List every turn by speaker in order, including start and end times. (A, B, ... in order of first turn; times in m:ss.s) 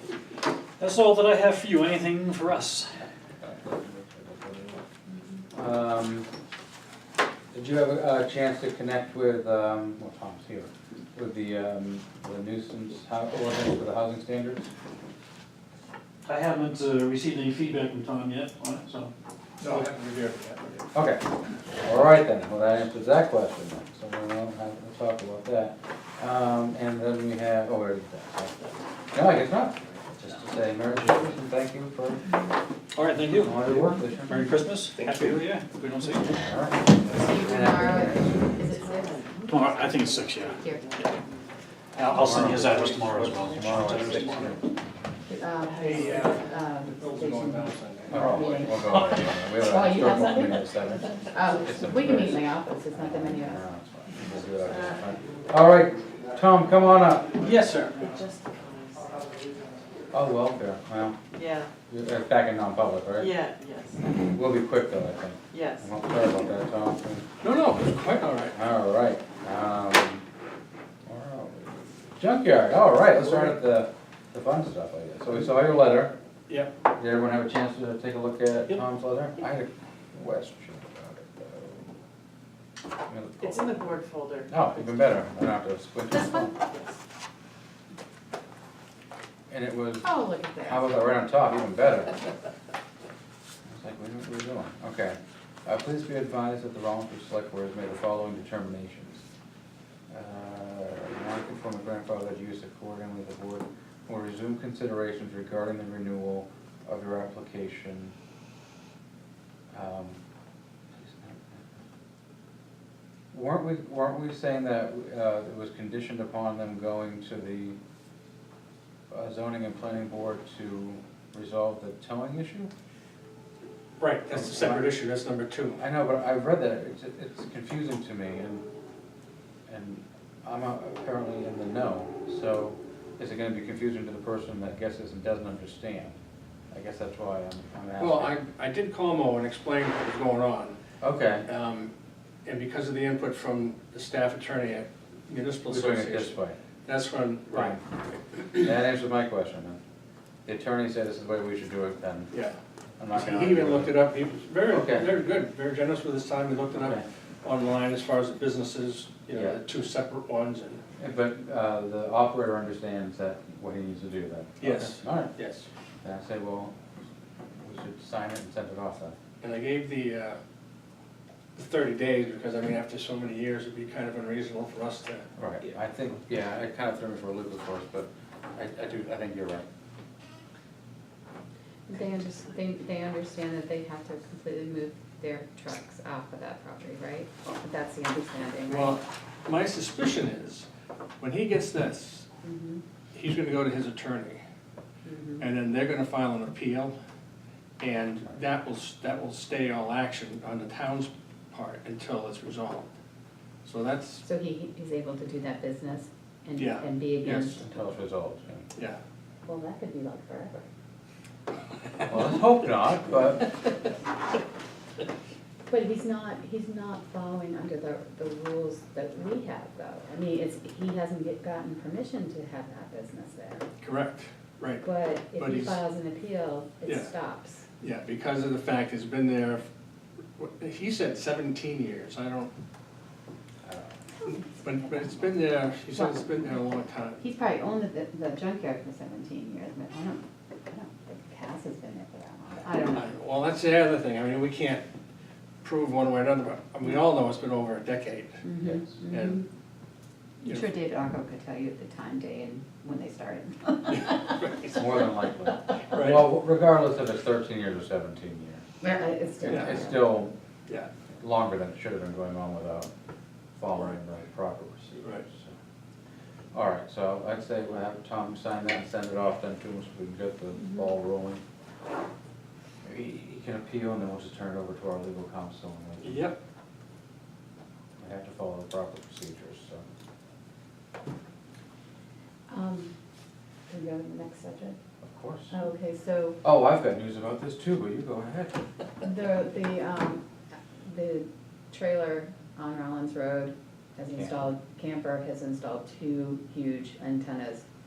0:00.8-0:03.0 A
0:03.4-0:04.8 B
0:05.5-0:06.3 B
0:07.5-0:14.7 B
0:16.2-0:19.1 A
0:19.6-0:20.9 C
0:20.9-0:28.5 B
0:29.1-0:32.3 B
0:32.2-0:32.5 D
0:32.9-0:36.4 A
0:33.3-0:34.5 B
0:36.0-0:38.4 B
0:37.1-0:39.9 D
0:38.7-0:44.4 E
0:39.5-0:40.5 A
0:40.4-0:40.9 D
0:42.0-0:44.6 A
0:42.1-0:44.6 B
0:42.6-0:43.0 C
0:45.3-0:53.6 D
0:45.6-0:46.6 E
0:45.8-0:48.6 C
0:48.1-0:57.4 B
0:54.6-0:55.3 E
0:57.3-0:58.2 C
0:57.8-0:59.3 E
0:59.0-0:59.8 C
1:00.1-1:01.2 B
1:01.3-1:01.7 E
1:01.9-1:03.4 B
1:03.2-1:04.0 E
1:04.2-1:07.3 B
1:05.5-1:05.9 E
1:07.4-1:08.6 C
1:08.5-1:10.2 B
1:11.0-1:16.1 B
1:17.0-1:21.9 B
1:23.1-1:23.7 B
1:23.4-1:24.5 E
1:24.5-1:26.6 B
1:26.4-1:26.9 E
1:29.5-1:32.2 B
1:30.0-1:31.0 D
1:33.6-1:39.2 B
1:40.1-1:48.1 B
1:49.7-1:50.2 B
1:50.9-1:51.6 B
1:53.3-1:57.8 B
1:59.1-2:02.7 B
2:04.0-2:05.8 C
2:04.3-2:04.9 B
2:05.7-2:08.6 B
2:09.7-2:16.2 B
2:16.7-2:18.3 B
2:18.0-2:20.8 C
2:21.0-2:21.5 B
2:21.4-2:21.9 C
2:22.4-2:27.8 C
2:25.7-2:26.6 B
2:27.5-2:27.8 B
2:28.5-2:29.8 B
2:30.4-2:32.3 B
2:33.0-2:34.0 B
2:33.1-2:40.8 C
2:34.7-2:35.1 B
2:36.8-2:37.0 B
2:41.0-2:45.3 B
2:44.6-2:45.7 C
2:46.0-2:46.7 B
2:47.6-2:49.1 B
2:49.4-2:50.4 C
2:51.5-2:55.3 C
2:55.4-2:59.6 B
3:01.9-3:09.0 D
3:08.7-3:10.6 C
3:11.2-3:12.3 C
3:12.4-3:12.8 D
3:13.1-3:14.4 C
3:15.0-3:15.4 D
3:15.4-3:16.9 C
3:17.8-3:22.9 C
3:23.6-3:24.2 C
3:24.2-3:27.8 D
3:26.6-3:27.6 C
3:27.4-3:28.7 B
3:29.4-3:30.7 D
3:32.1-3:33.5 B
3:35.7-3:43.7 D
3:43.8-3:44.8 C
3:44.8-3:47.6 D
3:45.4-3:45.8 C
3:46.8-3:47.1 C
3:47.8-3:49.6 C
3:50.4-3:52.5 C
3:54.3-3:57.2 C
3:55.9-3:56.6 D
3:57.2-4:03.1 D
4:02.8-4:04.8 C
4:05.6-4:08.4 C
4:08.4-4:09.4 D
4:09.1-4:09.4 C
4:10.4-4:14.8 D
4:14.7-4:18.6 B
4:15.9-4:16.3 C
4:18.8-4:20.1 D
4:19.4-4:19.8 C
4:19.4-4:20.3 B
4:21.2-4:22.9 B
4:23.6-4:25.6 B
4:25.0-4:25.2 C
4:26.5-4:31.4 B
4:32.8-4:36.2 B
4:36.0-4:36.4 C
4:38.0-4:39.8 B
4:42.5-4:42.9 D
4:43.7-4:44.8 D
4:45.0-4:45.5 B
4:45.5-4:46.4 D
4:46.4-4:48.6 B
4:49.0-4:50.2 D
4:50.8-4:57.6 D
4:54.1-4:54.5 B